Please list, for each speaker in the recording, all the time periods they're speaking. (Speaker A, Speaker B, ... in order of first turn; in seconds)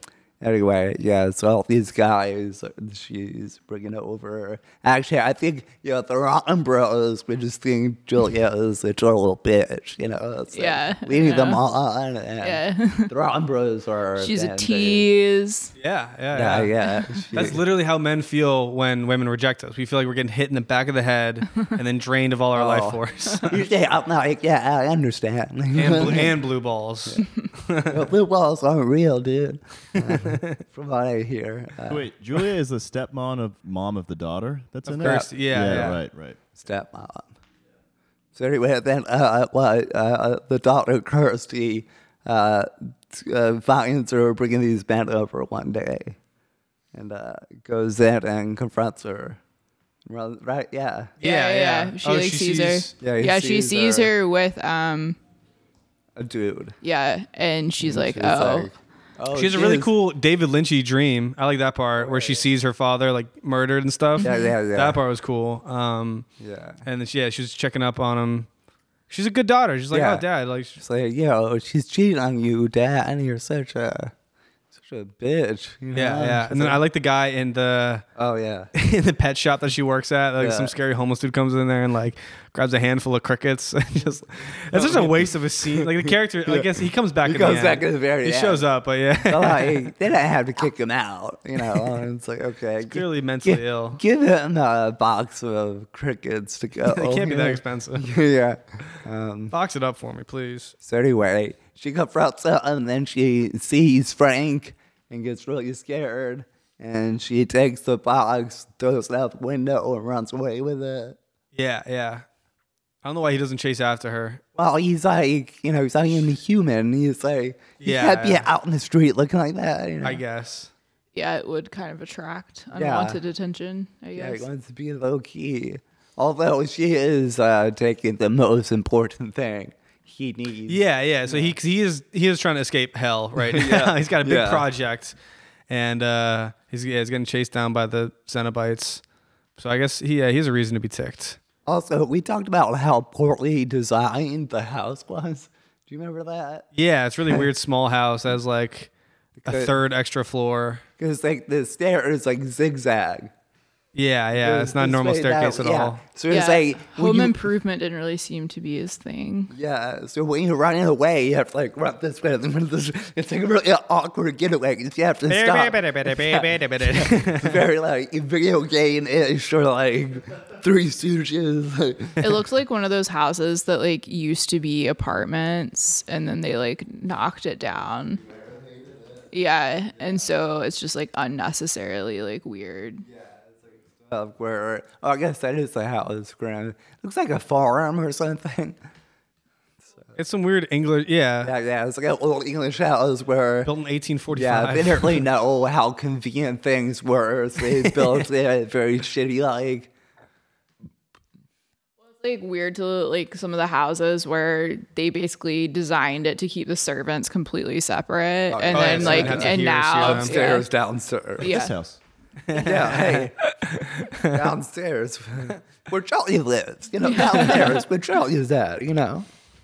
Speaker A: 0.4-15.1, 16.3-17.6, 22.5-26.4, 27.8-32.0, 35.0-35.3, 36.5-37.3, 38.4-46.2, 46.9-49.4, 50.0-51.1, 53.0-54.1, 56.1-56.8, 57.8-59.9, 62.0-62.4, 64.2-65.0, 66.4-66.8, 69.9-70.2, 70.8-74.1, 74.7-76.8, 78.2-78.7, 80.4-80.7, 84.7-86.7, 87.2-88.6, 89.2-99.5, 100.8-111.2, 114.5-120.2, 122.7-123.2, 124.1-131.5, 133.4-134.7, 141.7-146.7, 149.4-149.7, 151.0-153.3, 154.4-157.3, 159.5-172.2, 178.2-179.2, 183.0-188.8, 191.4-193.7, 194.3-199.9, 208.5-211.5, 212.5-213.6, 214.1-219.3
Speaker B: 10.5-11.6, 12.4-13.1, 14.2-15.7, 51.2-55.2, 56.8-58.7, 64.2-64.5, 121.1-124.4, 156.3-159.5, 172.2-178.2, 179.3-183.0, 202.0-210.7, 211.4-211.7, 217.0-217.8
Speaker C: 15.8-16.7, 17.3-23.6, 25.7-28.0, 29.9-30.6, 34.9-36.0, 51.2-52.9, 59.3-66.3, 66.9-68.5, 69.1-70.8, 75.9-78.0, 78.7-89.9, 91.6-92.0, 92.9-94.0, 96.9-98.1, 99.5-100.7, 111.5-112.2, 113.0-114.4, 117.8-118.5, 120.0-120.7, 130.7-135.1, 135.7-139.0, 139.6-141.4, 146.8-148.9, 149.4-150.8, 153.9-156.0, 165.3-167.6, 190.2-191.5, 193.6-195.2, 197.9-198.2, 208.7-210.3, 212.5-214.5
Speaker D: 31.9-36.4, 211.4-212.0